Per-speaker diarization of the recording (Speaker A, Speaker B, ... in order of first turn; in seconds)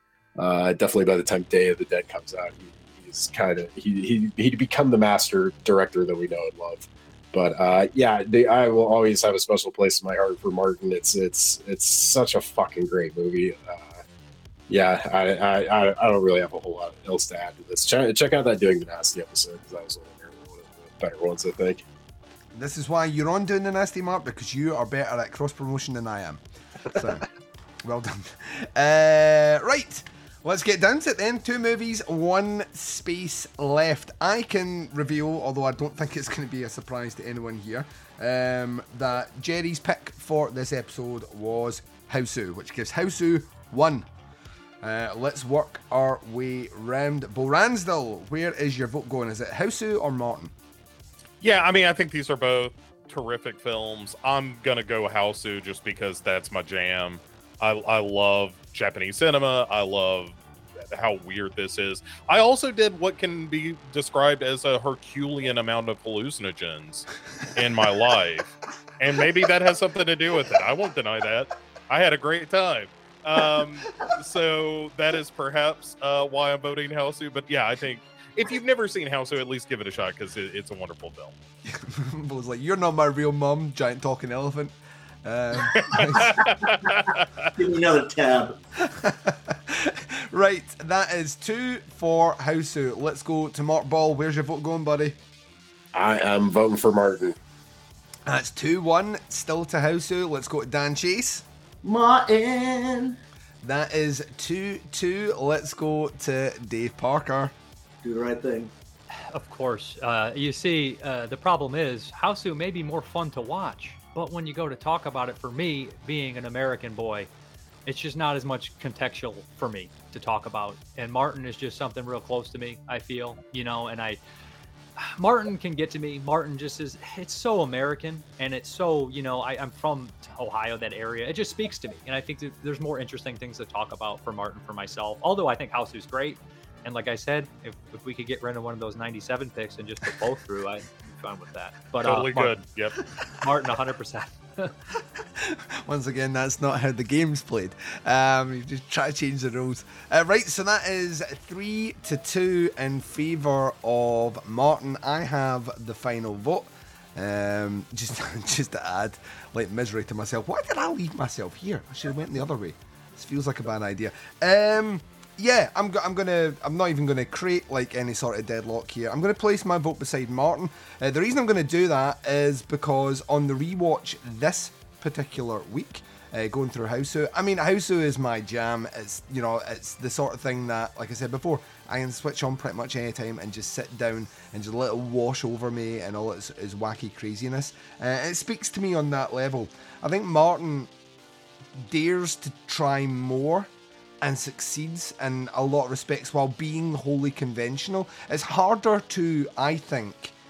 Speaker A: 0.4-14.0, 14.7-21.8, 95.9-97.4
Speaker B: 22.5-27.3, 27.8-44.1, 44.8-50.5, 81.7-86.4, 88.8-95.2, 98.3-101.5, 103.6-107.5, 145.4-190.9, 191.8-193.7, 194.2-200.3
Speaker C: 51.4-60.4, 60.9-81.3, 85.7-87.5, 142.0-143.0
Speaker D: 87.6-88.6, 101.8-103.2, 108.0-108.7
Speaker E: 109.3-117.3, 117.9-124.2, 125.0-142.6, 143.4-144.7